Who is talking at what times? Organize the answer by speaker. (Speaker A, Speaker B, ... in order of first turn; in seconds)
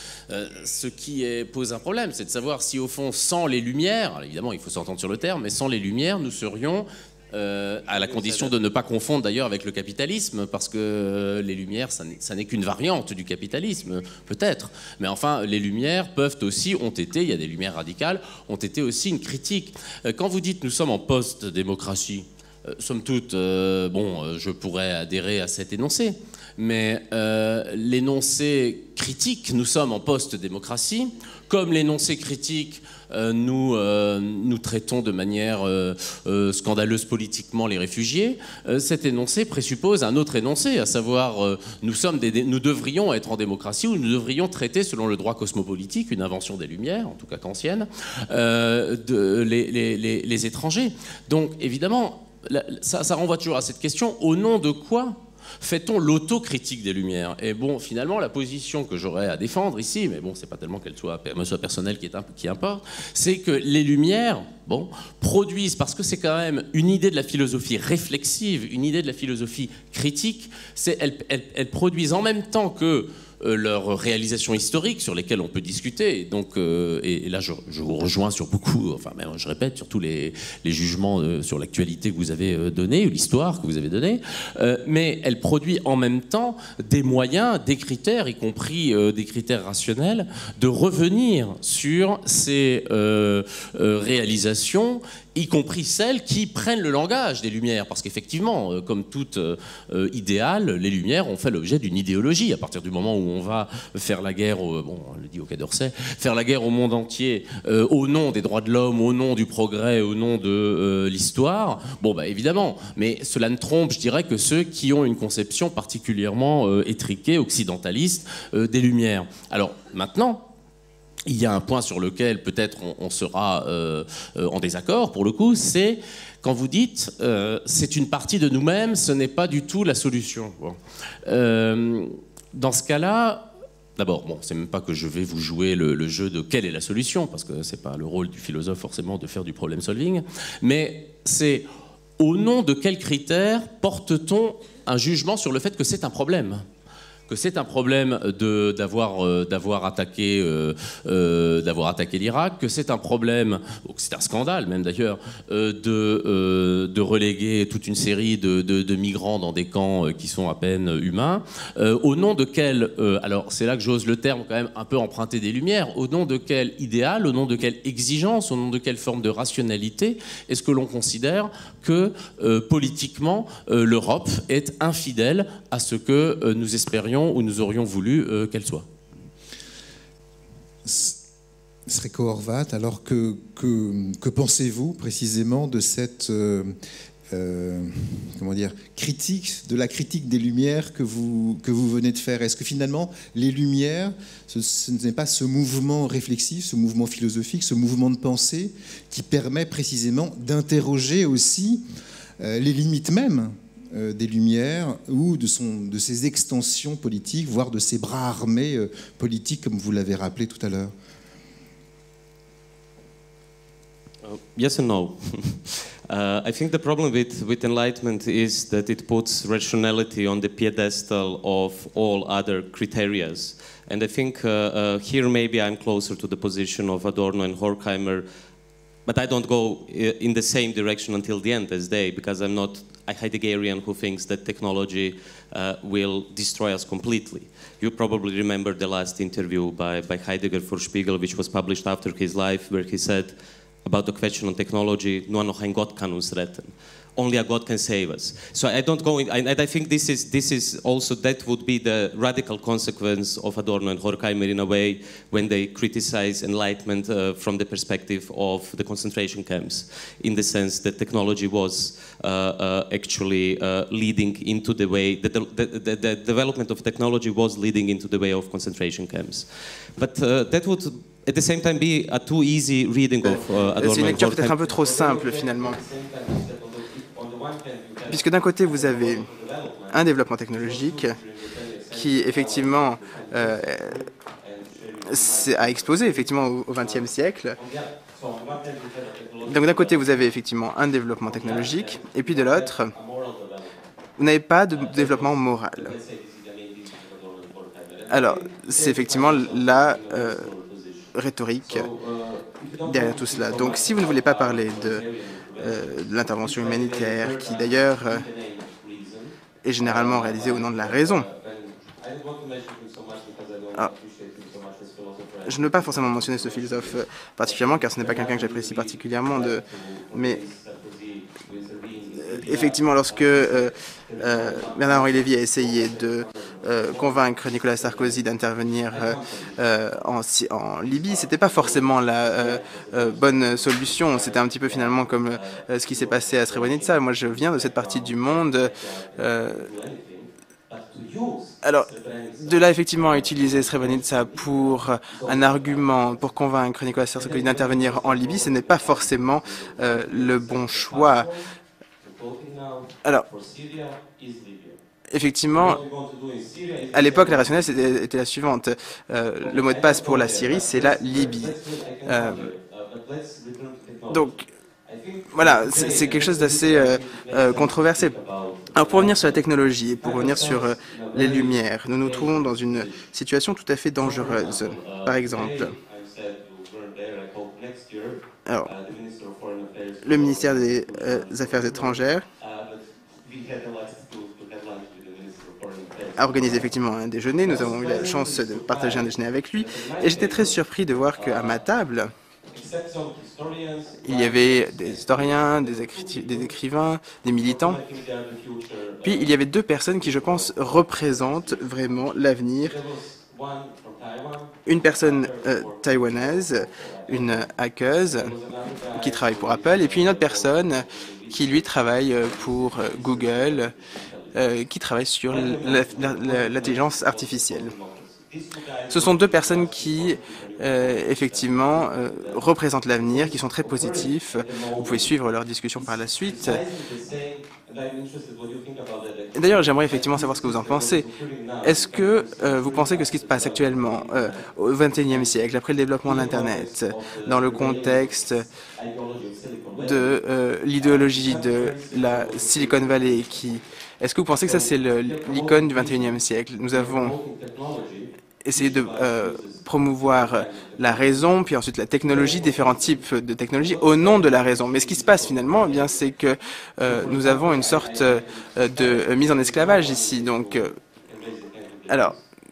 Speaker A: 0.3-120.5, 121.2-141.7, 142.2-146.7, 147.3-178.9
Speaker B: 8.1-8.5, 214.2-228.2, 229.0-278.2, 279.0-279.9, 281.2-283.5, 284.5-285.3, 287.6-289.9, 292.4-293.8, 294.9-301.1, 301.6-305.7, 306.7-307.6, 308.1-309.3, 309.8-315.5, 318.3-318.8, 320.1-322.6, 324.2-324.5, 339.7-342.4, 352.1-354.7, 355.5-357.6, 359.7-364.2, 364.9-368.9, 370.3-371.5, 374.8-380.8, 382.4-386.3, 387.5-388.3, 389.7-390.4, 392.5-394.9, 397.5-399.3, 402.7-404.5, 406.9-407.2, 408.1-409.9, 415.3-420.8, 424.5-425.0, 426.2-434.3, 436.1-438.1, 438.8-440.1, 441.3-443.1, 445.1-446.0, 446.7-449.6, 450.2-450.8, 452.2-452.7, 454.9-455.8, 456.9-458.2, 458.9-460.6, 461.1-462.1
Speaker C: 180.8-181.2, 181.9-186.7, 187.3-201.8, 202.4-210.9
Speaker D: 273.2-275.8, 278.1-279.3, 279.9-281.2, 281.9-284.0, 285.0-287.6, 289.4-292.9, 294.2-295.9, 298.1-300.5, 301.1-301.9, 302.8-305.0, 305.6-308.3, 309.6-311.3, 315.4-320.4, 322.1-339.7, 341.6-351.3, 355.1-355.8, 356.9-362.5, 364.1-364.5, 365.3-368.1, 368.7-375.7, 378.4-378.7, 380.0-382.2, 386.1-392.1, 394.0-397.8, 399.0-402.8, 404.6-408.3, 408.9-413.7, 414.3-417.7, 418.9-426.6, 429.3-431.1, 431.6-438.5, 439.8-447.1, 448.4-460.8, 461.9-462.1